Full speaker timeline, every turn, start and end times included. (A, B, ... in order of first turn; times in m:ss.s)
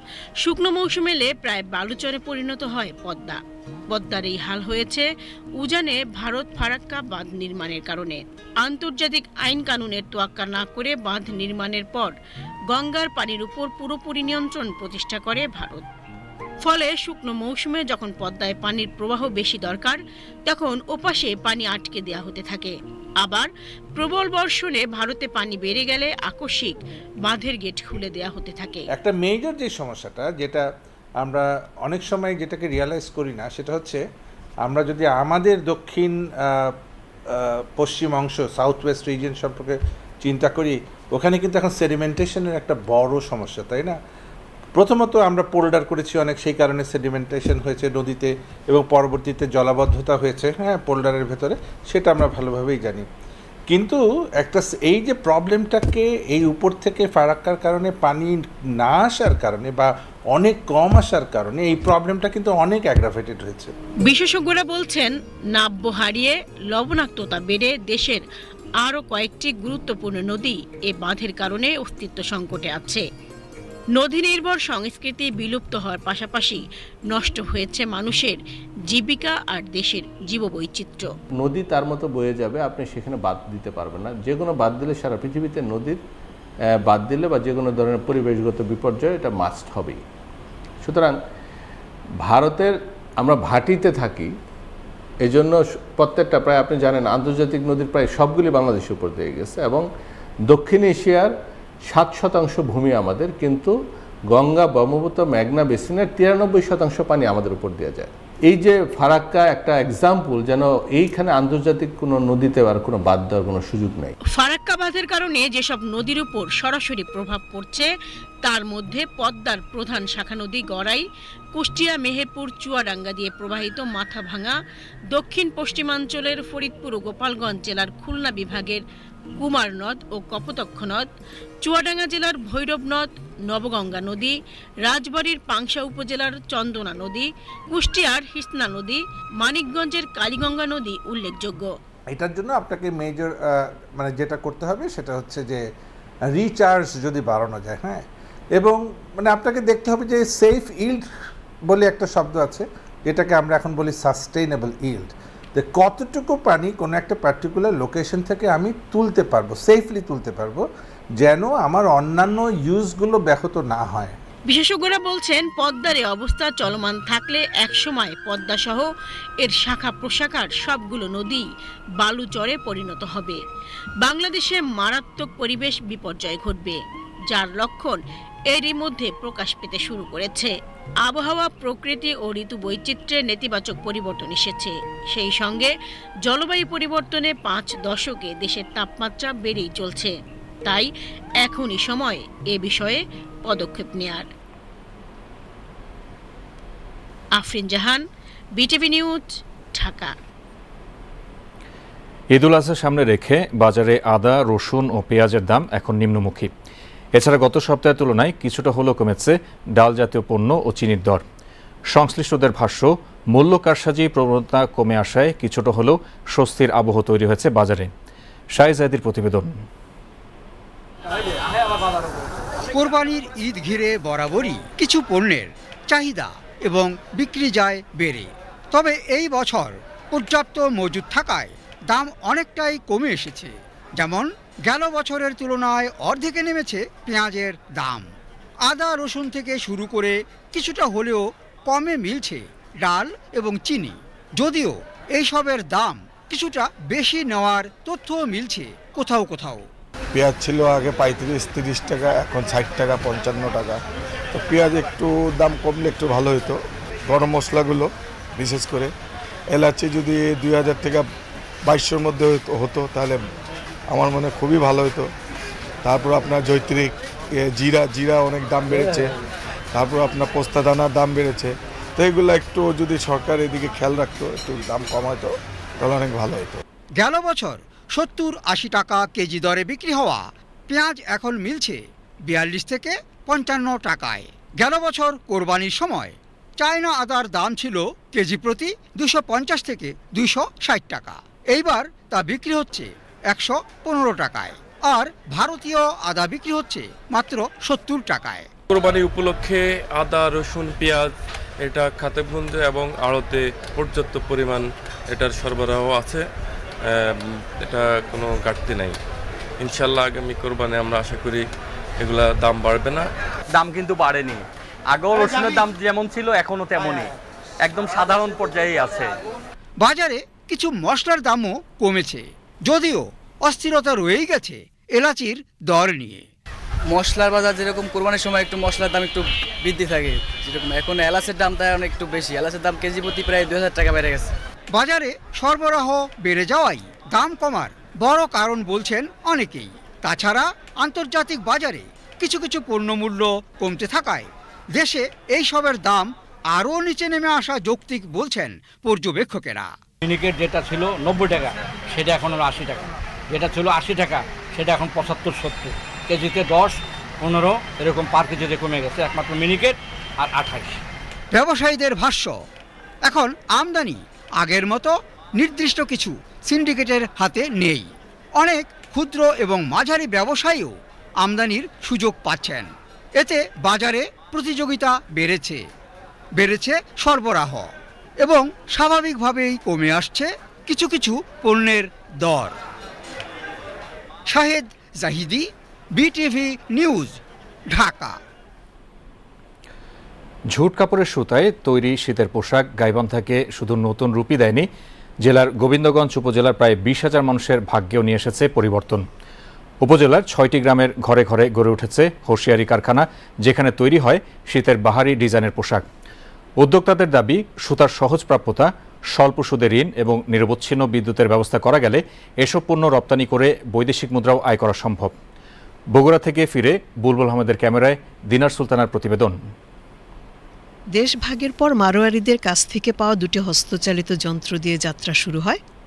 0:00.4-0:05.1 A
0:05.6-0:12.1 A
0:12.7-0:15.8 A
0:16.6-0:28.8 A
0:28.9-0:30.6 B
0:31.2-0:34.0 B
0:34.6-0:36.7 B
0:37.3-0:44.0 B
0:44.8-0:53.0 B
0:53.7-1:03.7 B
1:04.0-1:08.2 A
1:08.8-1:13.0 A
1:14.0-1:21.1 A
1:21.4-1:26.0 C
1:26.7-1:30.0 C
1:30.8-1:31.2 C
1:32.2-1:34.3 C
1:35.2-1:39.9 C
1:40.5-1:41.3 C
1:41.9-1:43.7 C
1:44.3-1:54.1 C
1:54.3-1:57.9 A
1:58.4-2:04.6 A
2:05.1-2:08.8 A
2:09.4-2:11.1 A
2:11.6-2:21.7 A
2:22.1-2:25.6 B
2:26.3-2:28.0 B
2:28.6-2:31.0 B
2:31.7-2:40.6 B
2:41.2-2:44.2 B
2:44.5-2:48.9 A
2:49.4-2:51.5 A
2:52.0-2:53.4 A
2:54.0-2:58.0 A
2:58.5-3:00.5 A
3:01.0-3:05.7 A
3:06.2-3:10.9 A
3:11.4-3:14.3 A
3:17.4-3:18.0 A
3:18.6-3:20.2 A
3:22.3-3:26.5 D
3:27.1-3:31.2 D
3:31.9-3:37.9 D
3:38.5-3:39.6 D
3:42.6-3:58.1 E
3:58.6-4:09.7 E
4:10.1-4:13.8 F
4:14.3-4:16.6 F
4:17.1-4:18.9 F
4:19.5-4:21.0 F
4:21.6-4:23.2 F
4:23.9-4:25.1 F
4:25.8-4:29.1 F
4:29.7-4:36.6 F
4:37.0-4:58.5 E
4:58.7-5:06.3 G
5:06.8-5:09.0 G
5:09.6-5:11.4 G
5:12.0-5:13.1 G
5:13.5-5:19.2 H
5:19.8-5:26.2 E
5:26.9-5:34.3 I
5:34.7-5:49.7 E
5:50.0-6:00.8 J
6:01.3-6:02.4 E
6:03.0-6:15.6 E
6:16.4-6:22.6 E
6:24.3-6:27.2 E
6:27.7-6:28.2 E
6:30.5-6:34.7 D
6:35.2-6:39.0 D
6:39.8-6:45.8 D
6:46.6-6:55.1 D
6:55.9-6:59.4 D
7:01.0-7:05.6 K